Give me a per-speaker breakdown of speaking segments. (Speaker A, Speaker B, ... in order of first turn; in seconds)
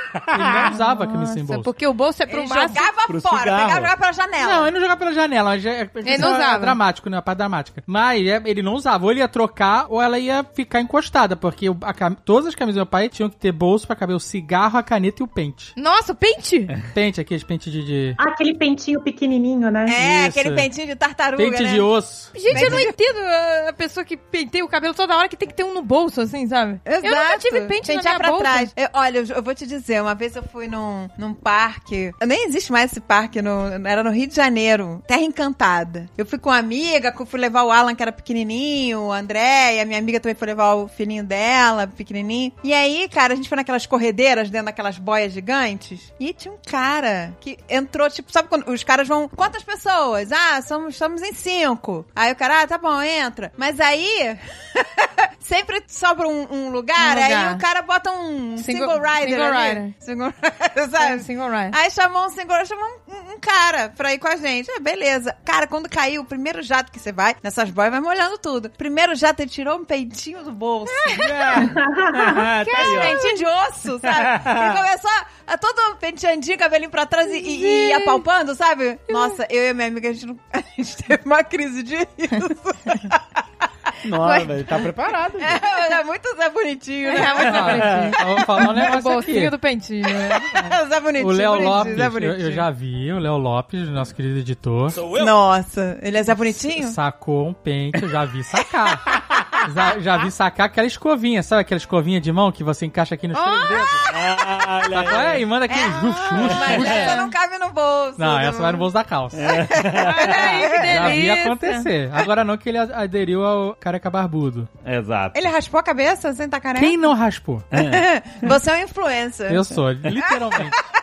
Speaker A: 0.1-0.7, 3.1-3.9, 71.2-73.2, 74.0-74.8, 84.0-85.6, 87.9-88.1, 104.1-105.5, 106.4-107.1, 109.3-110.6, 114.8-115.4, 117.7-118.5
Speaker B: 0.3-1.7, 4.4-15.7, 16.9-18.2, 20.0-20.7, 21.4-22.8, 87.5-89.5, 91.2-95.1, 96.5-99.0, 99.6-104.0, 104.9-107.2, 108.2-109.6, 110.8-114.7, 116.7-117.7, 119.5-120.8
Speaker C: 0.6-2.9, 6.0-6.8, 15.8-16.7, 22.3-28.7, 57.0-57.6, 58.6-59.9, 61.0-61.8, 70.9-71.7, 72.6-73.3, 77.3-78.2, 79.1-79.4, 84.2-84.6, 87.1-90.8, 110.0-111.9
Speaker D: 2.3-4.7, 19.9-21.9, 22.5-22.9, 26.9-71.6, 72.7-83.2, 85.4-87.9, 90.2-92.7, 95.0-97.0, 103.4-108.9, 109.5-111.2, 115.3-117.0, 117.7-120.8
Speaker E: 18.2-20.0, 71.6-72.5